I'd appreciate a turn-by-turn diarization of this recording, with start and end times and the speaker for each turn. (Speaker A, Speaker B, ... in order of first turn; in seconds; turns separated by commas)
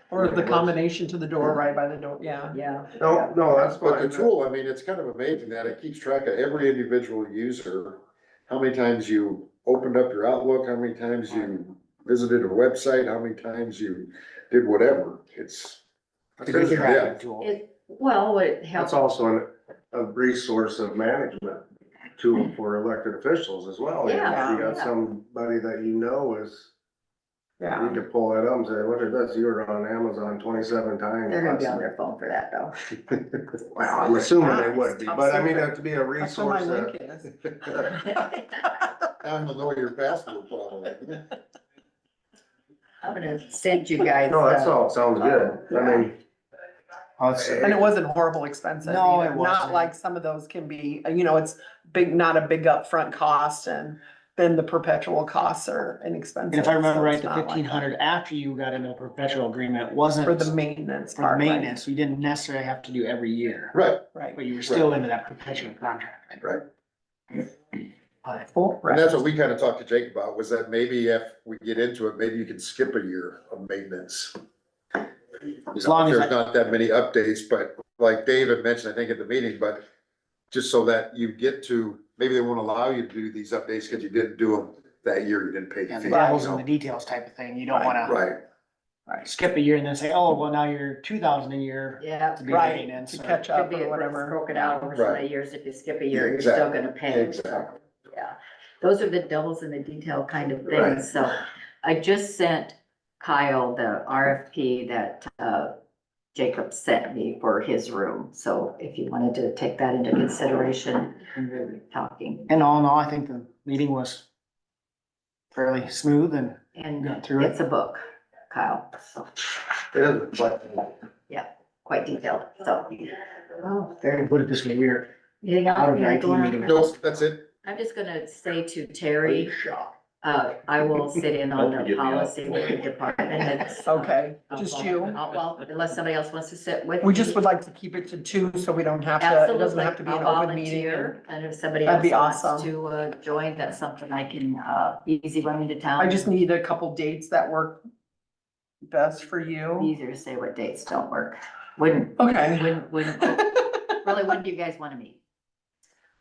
Speaker A: 0.1-2.6, Speaker B: 2.5-3.3, Speaker C: 3.0-4.3, Speaker D: 3.6-15.8, Speaker E: 16.4-17.5, Speaker C: 16.4-17.0, Speaker D: 16.5-17.2, Speaker B: 17.4-19.0, Speaker C: 18.7-21.6, Speaker C: 22.2-26.7, Speaker B: 24.0-24.9, Speaker A: 24.3-24.6, Speaker A: 27.6-28.0, Speaker C: 27.8-31.9, Speaker B: 31.3-32.8, Speaker C: 33.6-36.9, Speaker A: 34.0-37.3, Speaker D: 39.2-41.3, Speaker B: 43.0-46.1, Speaker C: 44.3-46.1, Speaker E: 47.2-47.7, Speaker A: 47.6-57.8, Speaker E: 48.8-49.9, Speaker E: 56.5-60.5, Speaker A: 60.2-61.7, Speaker E: 61.2-63.7, Speaker D: 63.7-64.1, Speaker E: 64.3-66.4, Speaker A: 68.5-69.1, Speaker D: 68.8-74.3, Speaker D: 75.7-79.8, Speaker E: 75.8-76.3, Speaker D: 80.5-86.6, Speaker E: 85.9-88.2, Speaker A: 86.1-86.4, Speaker A: 87.7-88.0, Speaker D: 88.0-88.4, Speaker E: 89.2-93.4, Speaker B: 92.0-92.9, Speaker A: 92.5-94.3, Speaker B: 93.5-105.8, Speaker D: 94.9-95.2, Speaker D: 96.1-97.7, Speaker D: 100.7-101.0, Speaker B: 106.3-112.5, Speaker E: 112.5-114.2, Speaker E: 115.5-117.5, Speaker B: 116.7-119.3, Speaker D: 119.9-120.8, Speaker B: 121.3-124.0, Speaker E: 123.9-125.1, Speaker B: 125.4-126.9, Speaker E: 125.7-126.9, Speaker D: 126.7-127.5, Speaker B: 127.6-129.6, Speaker B: 130.2-137.4, Speaker A: 133.8-135.2, Speaker A: 137.0-141.1, Speaker B: 139.2-146.3, Speaker A: 141.8-142.7, Speaker A: 146.0-147.8, Speaker A: 148.8-149.9, Speaker B: 149.8-155.2, Speaker A: 152.2-153.7